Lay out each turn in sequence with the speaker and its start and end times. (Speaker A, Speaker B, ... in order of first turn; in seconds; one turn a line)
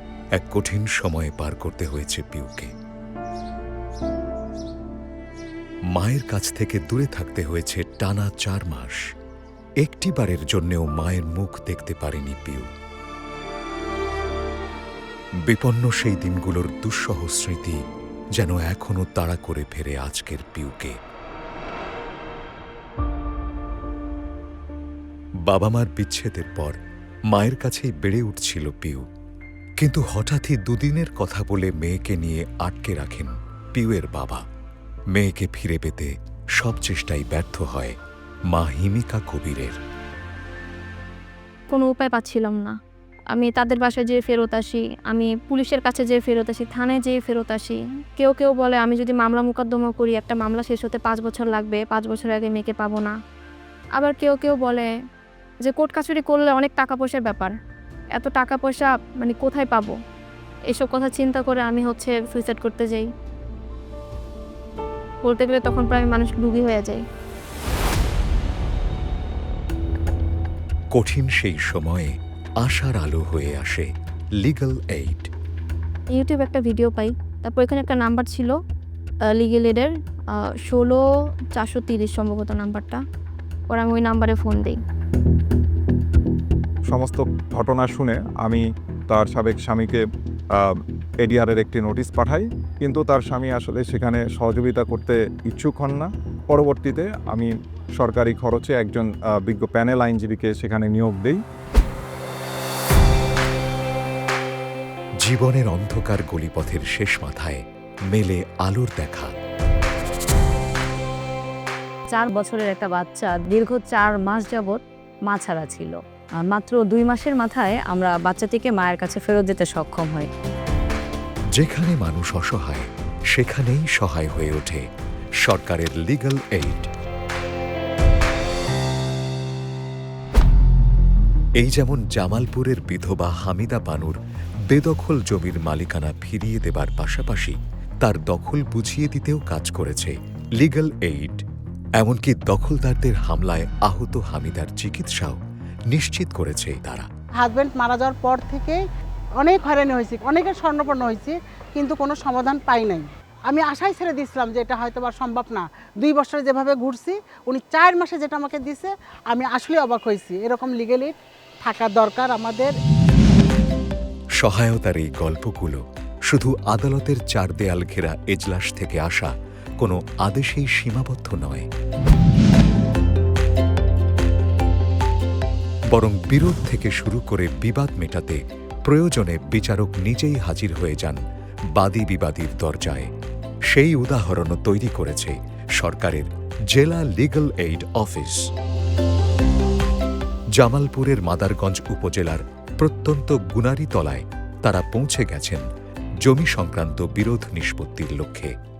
Speaker A: 0.3-2.7
Speaker A: 5.9-9.0
Speaker A: 9.8-12.7
Speaker A: 15.5-17.8
Speaker A: 18.4-20.9
Speaker A: 25.5-26.8
Speaker A: 27.3-29.1
Speaker A: 29.8-34.4
Speaker A: 35.1-38.0
Speaker A: 38.5-39.8
Speaker B: 41.7-42.8
Speaker B: 43.3-53.1
Speaker B: 54.0-54.9
Speaker B: 55.6-57.5
Speaker B: 58.1-59.9
Speaker B: 60.7-63.1
Speaker B: 65.2-67.0
Speaker A: 70.9-73.9
Speaker A: 74.4-75.3
Speaker B: 76.1-78.6
Speaker B: 79.2-81.0
Speaker B: 81.5-83.0
Speaker B: 83.7-84.8
Speaker C: 86.9-90.0
Speaker C: 90.5-101.4
Speaker A: 105.2-109.3
Speaker D: 112.1-120.3
Speaker A: 121.6-124.9
Speaker A: 125.4-126.9
Speaker A: 131.6-134.2
Speaker A: 134.7-141.4
Speaker A: 142.0-145.4
Speaker A: 145.9-147.1
Speaker E: 147.4-148.8
Speaker E: 149.4-162.7
Speaker A: 164.4-171.7
Speaker A: 175.9-181.2
Speaker A: 181.7-183.1
Speaker A: 183.7-188.5
Speaker A: 190.6-195.7
Speaker A: 196.2-198.5